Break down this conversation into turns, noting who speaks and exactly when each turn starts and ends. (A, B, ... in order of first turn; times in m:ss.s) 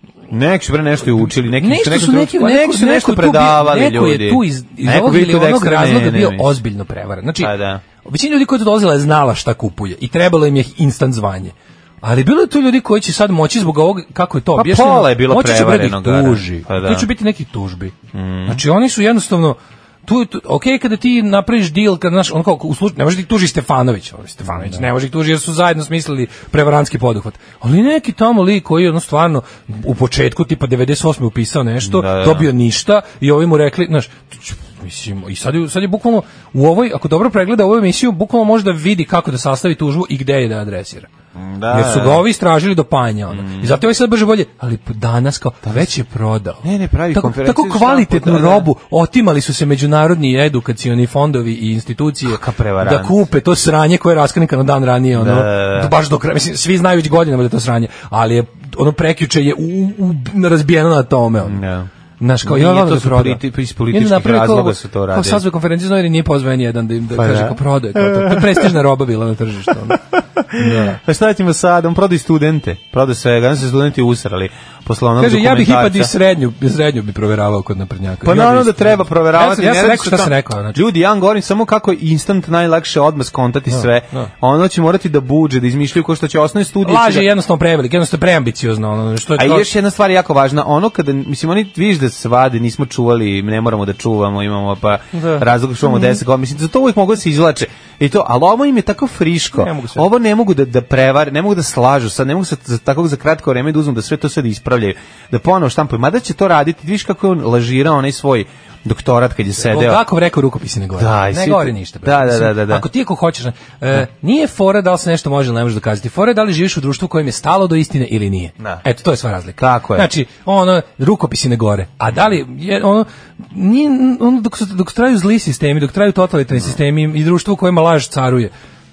0:00.3-0:06.6 A
0:01.5-0:07.5 B
0:07.4-0:07.8 A
0:08.0-0:17.9 B
0:14.5-0:17.1 A
0:18.1-0:18.6 A
0:18.5-0:41.1 B
0:31.8-0:32.5 A
0:41.4-0:42.2 A
0:41.7-1:01.6 B
0:43.3-0:43.8 A
0:45.6-0:45.9 A
0:46.6-0:48.7 A
0:52.2-0:53.2 A
0:55.1-0:55.9 A
1:01.4-1:01.9 A
1:02.2-1:10.0 B
1:02.4-1:05.4 A
1:07.1-1:08.7 A
1:10.2-1:16.1 A
1:10.5-1:11.0 B
1:15.2-1:20.8 B
1:18.2-1:27.3 A
1:23.7-1:24.3 B
1:26.8-1:29.7 B
1:29.4-1:50.0 A
1:35.1-1:36.2 B
1:39.6-1:40.1 B
1:49.6-2:08.5 B
1:51.0-1:52.8 A
1:59.6-2:00.1 A